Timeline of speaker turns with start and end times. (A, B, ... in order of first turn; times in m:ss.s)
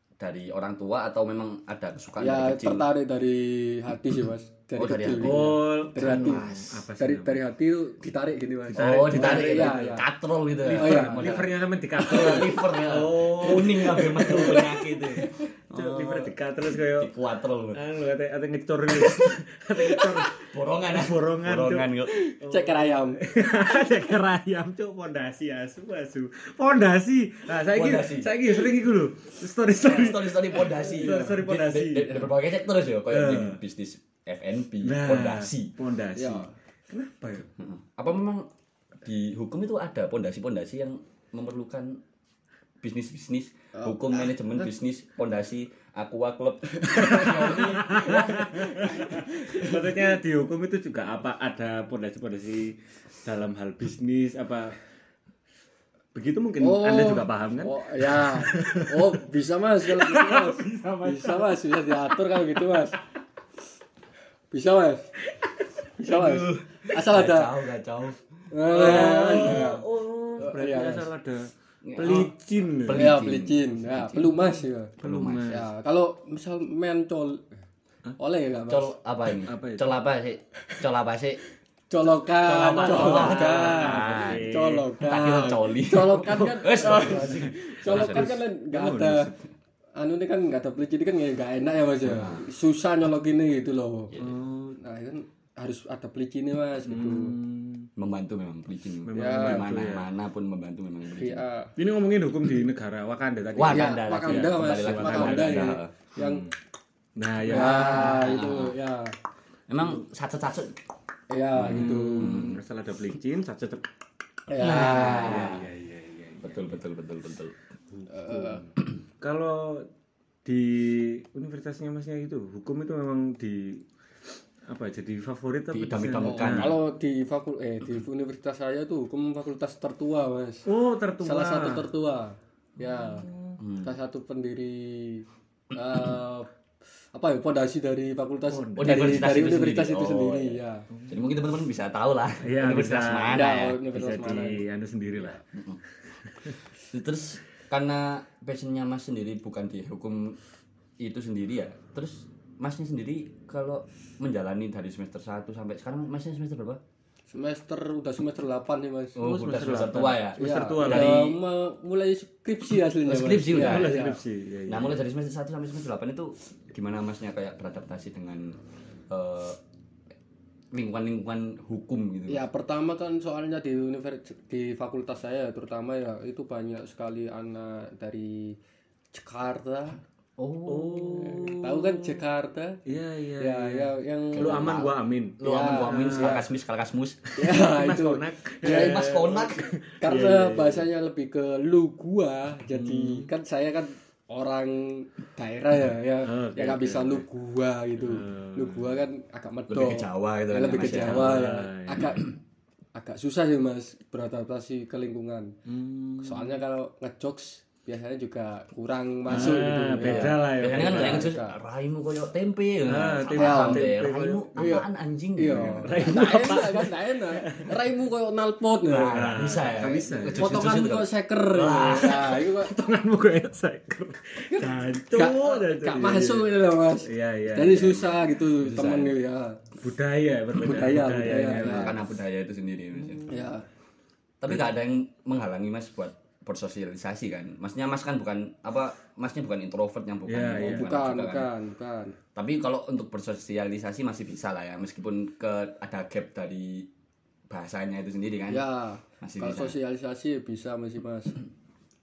0:00.2-0:02.9 A
0:02.2-0:06.4 B
0:04.8-0:06.8 A
0:05.2-0:07.4 C
0:07.0-0:10.0 B
0:08.7-0:10.0 C
0:08.8-0:16.3 A
0:10.6-0:11.4 B
0:10.7-0:17.1 C
0:14.0-0:14.8 B
0:16.9-0:17.8 A
0:17.7-0:32.2 C
0:20.2-0:22.1 A
0:22.1-0:23.2 B
0:27.7-0:28.4 A
0:29.8-0:35.7 A
0:31.0-0:31.4 B
0:33.1-0:33.6 C
0:34.8-0:37.5 C
0:36.2-0:36.5 B
0:37.6-0:38.5 A
0:39.0-0:42.0 A
0:42.8-0:49.2 A
0:43.7-0:44.3 B
0:46.8-0:49.9 B
0:47.0-0:54.8 C
0:56.1-0:59.1 C
0:56.6-1:03.0 B
0:59.9-1:02.1 C
1:04.5-1:05.1 B
1:06.0-1:07.5 B
1:06.0-1:08.2 A
1:08.5-1:09.8 B
1:08.7-1:13.2 C
1:08.8-1:09.7 A
1:10.4-1:11.1 B
1:11.8-1:15.6 A
1:12.9-1:14.9 B
1:15.0-1:15.6 C
1:15.5-1:17.4 B
1:18.2-1:18.9 B
1:18.7-1:21.4 A
1:19.4-1:19.9 C
1:21.9-1:29.3 B
1:22.4-1:24.5 A
1:22.6-1:24.9 C
1:25.0-1:28.3 A
1:26.2-1:29.4 C
1:30.0-1:34.1 B
1:32.0-1:32.4 A
1:34.1-1:34.4 A
1:34.2-1:34.8 C
1:34.8-1:37.3 B
1:36.9-1:37.9 C
1:38.0-1:41.4 A
1:39.0-1:40.1 C
1:39.1-1:39.6 B
1:41.1-1:41.7 B
1:41.8-1:46.5 C
1:43.5-1:45.9 A
1:43.7-1:46.4 B
1:47.2-1:48.2 C
1:47.4-1:49.1 B
1:47.6-1:48.7 A
1:49.7-1:50.8 A
1:51.3-1:52.5 B
1:51.5-1:52.6 A
1:51.6-1:53.8 C
1:54.5-1:55.6 B
1:54.6-1:55.7 A
1:54.6-1:56.6 C
1:56.4-1:57.6 A
1:57.9-1:59.9 C
1:58.1-1:58.6 B
2:00.4-2:03.8 C
2:04.7-2:06.7 C
2:05.7-2:06.8 A
2:06.2-2:10.6 B
2:10.6-2:11.9 C
2:11.2-2:13.3 B
2:13.0-2:13.6 C
2:13.6-2:13.9 A
2:13.8-2:16.5 B
2:17.1-2:20.8 B
2:18.5-2:19.3 C
2:18.8-2:23.8 A
2:20.9-2:21.2 C
2:22.4-2:25.4 C
2:23.3-2:24.6 B
2:25.5-2:25.8 A
2:26.8-2:30.4 A
2:31.0-2:36.8 A
2:37.3-2:39.2 B
2:39.2-2:41.3 A
2:39.2-2:41.3 C
2:40.4-2:44.2 B
2:43.0-2:44.0 A
2:43.5-2:45.0 C
2:44.7-2:49.6 A
2:50.7-2:52.4 A
2:52.3-2:58.6 B
2:59.1-3:00.0 B
3:00.4-3:01.5 A
3:00.6-3:02.2 C
3:01.1-3:02.8 B
3:02.8-3:06.4 C
3:03.4-3:04.7 B
3:04.3-3:07.2 A
3:05.4-3:06.4 B
3:07.3-3:10.8 C
3:07.4-3:09.2 B
3:08.6-3:09.7 A
3:10.0-3:22.3 B
3:12.7-3:13.3 C
3:16.2-3:17.2 C
3:18.0-3:19.0 C
3:19.7-3:21.5 A
3:20.8-3:22.0 C
3:22.9-3:25.5 B
3:25.7-3:26.6 C
3:26.2-3:31.5 B
3:29.3-3:31.3 C
3:29.3-3:36.8 A
3:32.9-3:34.8 C
3:33.3-3:33.9 B
3:34.6-3:39.2 B
3:35.7-3:37.7 C
3:38.9-3:42.3 A
3:39.1-3:40.4 C
3:40.2-3:42.7 B
3:41.8-3:46.5 C
3:44.6-3:49.6 B
3:47.1-3:48.2 C
3:48.6-3:49.1 A
3:49.8-3:52.0 C
3:50.6-3:52.0 B
3:51.4-3:53.3 A
3:53.3-3:53.6 B
3:54.4-4:01.5 A
4:00.2-4:00.9 C
4:00.6-4:02.2 B
4:02.3-4:06.9 A
4:07.5-4:08.7 A
4:08.5-4:11.4 B
4:09.2-4:09.7 A